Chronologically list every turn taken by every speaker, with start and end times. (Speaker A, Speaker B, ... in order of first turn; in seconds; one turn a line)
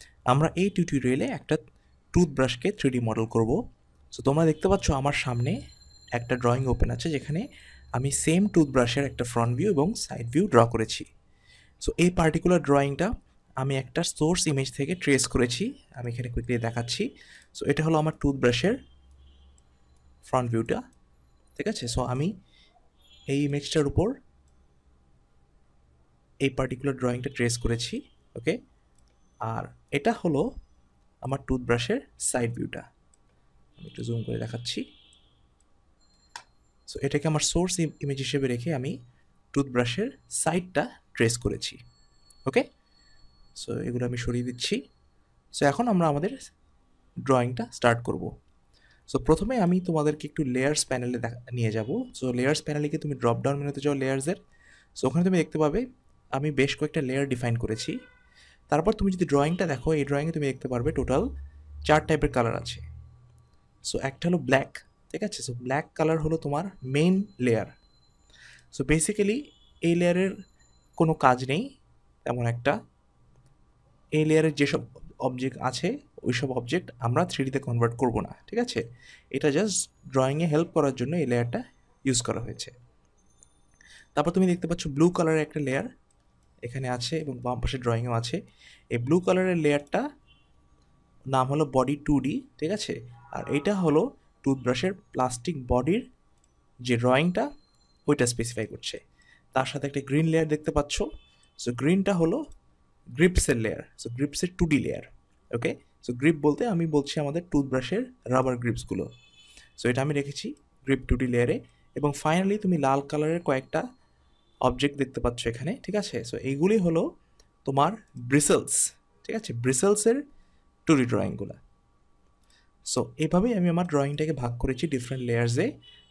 Speaker A: 0.3-1.6
Speaker A: 2.1-3.6
Speaker A: 4.1-5.6
Speaker A: 6.1-7.4
Speaker A: 8.0-11.1
Speaker A: 11.8-18.8
Speaker A: 20.2-20.8
Speaker A: 21.6-22.3
Speaker A: 23.3-24.1
Speaker A: 26.4-28.6
Speaker A: 29.5-30.5
Speaker A: 31.2-32.9
Speaker A: 33.8-34.8
Speaker A: 36.9-39.0
Speaker A: 39.5-41.8
Speaker A: 43.5-44.8
Speaker A: 45.5-46.3
Speaker A: 47.2-48.3
Speaker A: 49.1-54.4
Speaker A: 55.0-55.8
Speaker A: 56.4-58.0
Speaker A: 58.7-61.3
Speaker A: 61.9-62.8
Speaker A: 63.9-67.7
Speaker A: 68.7-70.3
Speaker A: 71.0-71.7
Speaker A: 72.2-72.8
Speaker A: 74.2-78.8
Speaker A: 79.3-82.7
Speaker A: 84.2-85.9
Speaker A: 86.6-88.4
Speaker A: 88.9-90.0
Speaker A: 91.3-96.0
Speaker A: 96.8-97.5
Speaker A: 98.1-99.0
Speaker A: 99.5-101.1
Speaker A: 101.6-102.4
Speaker A: 103.1-109.1
Speaker A: 109.8-113.8
Speaker A: 114.6-117.1
Speaker A: 117.7-120.2
Speaker A: 120.8-121.6
Speaker A: 122.9-125.7